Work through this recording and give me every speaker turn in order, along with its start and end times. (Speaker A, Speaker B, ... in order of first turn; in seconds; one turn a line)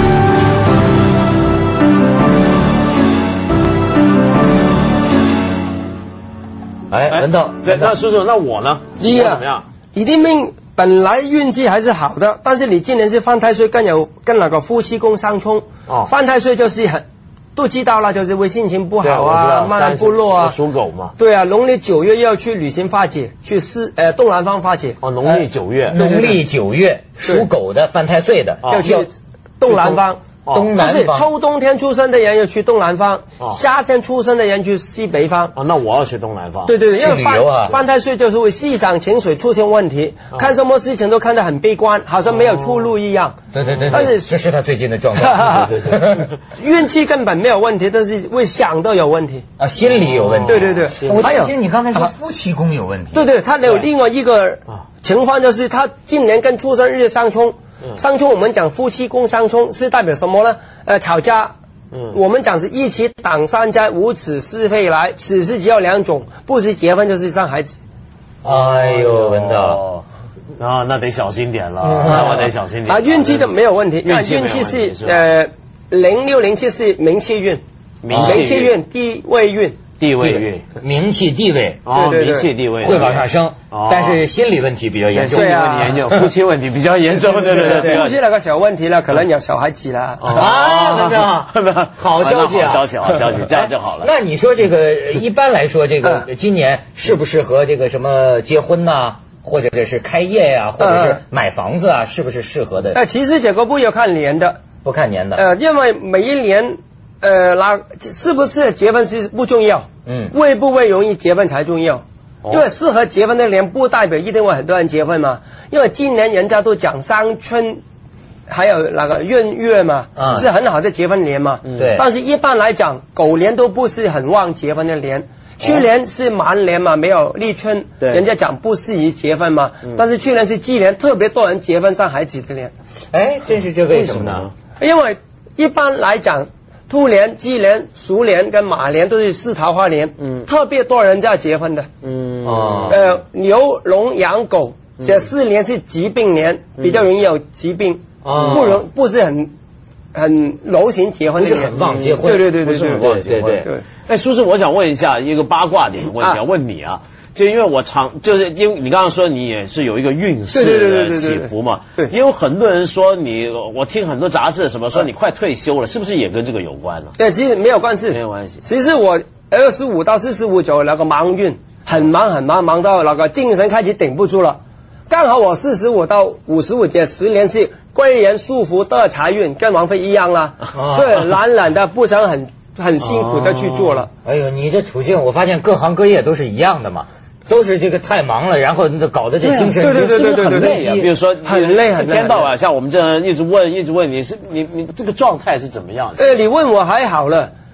Speaker A: 6.9-8.0
Speaker B: 7.1-9.7
Speaker C: 9.0-20.6
Speaker B: 19.0-21.1
Speaker C: 21.2-25.0
Speaker B: 25.0-26.0
Speaker A: 25.2-29.1
Speaker C: 25.9-26.4
Speaker B: 28.6-28.9
Speaker C: 28.7-30.2
Speaker A: 29.7-30.0
Speaker B: 30.4-30.8
Speaker A: 30.5-31.3
Speaker C: 30.8-35.5
Speaker B: 35.5-36.8
Speaker C: 36.7-43.4
Speaker A: 37.0-37.8
Speaker B: 42.3-42.9
Speaker A: 43.5-46.2
Speaker B: 43.6-44.1
Speaker C: 43.9-44.3
Speaker C: 45.2-45.9
Speaker B: 45.6-46.3
Speaker C: 46.5-49.5
Speaker A: 49.6-53.3
Speaker B: 49.8-51.4
Speaker C: 50.5-52.1
Speaker C: 53.1-61.5
Speaker C: 62.1-67.8
Speaker A: 68.4-69.8
Speaker B: 68.5-70.0
Speaker B: 70.6-75.3
Speaker A: 71.8-72.5
Speaker C: 72.1-77.6
Speaker B: 78.0-78.7
Speaker A: 78.1-78.5
Speaker C: 78.2-79.8
Speaker B: 80.0-80.7
Speaker A: 80.8-81.8
Speaker B: 81.8-84.2
Speaker C: 81.9-82.5
Speaker A: 82.8-86.3
Speaker B: 85.1-88.2
Speaker C: 85.3-86.1
Speaker C: 87.2-90.4
Speaker A: 87.5-88.1
Speaker B: 90.2-94.1
Speaker A: 90.3-103.0
Speaker C: 100.8-101.2
Speaker C: 102.9-104.6
Speaker A: 104.8-105.4
Speaker C: 105.3-117.8
Speaker A: 110.1-110.3
Speaker C: 118.5-132.7
Speaker A: 120.2-120.5
Speaker B: 121.7-122.0
Speaker A: 121.8-122.1
Speaker B: 128.0-128.3
Speaker A: 133.1-134.5
Speaker B: 133.9-134.5
Speaker C: 134.8-141.9
Speaker B: 140.2-140.5
Speaker B: 142.0-143.0
Speaker A: 142.4-143.0
Speaker C: 142.9-149.5
Speaker B: 145.0-145.3
Speaker A: 148.2-148.8
Speaker B: 148.3-148.8
Speaker C: 150.1-153.8
Speaker A: 151.4-153.7
Speaker B: 151.7-167.1
Speaker C: 160.5-162.1
Speaker C: 167.2-184.1
Speaker B: 168.1-168.6
Speaker A: 180.7-181.3
Speaker B: 183.0-184.1
Speaker A: 184.2-190.9
Speaker B: 189.4-196.4
Speaker C: 189.8-192.5
Speaker C: 196.2-197.5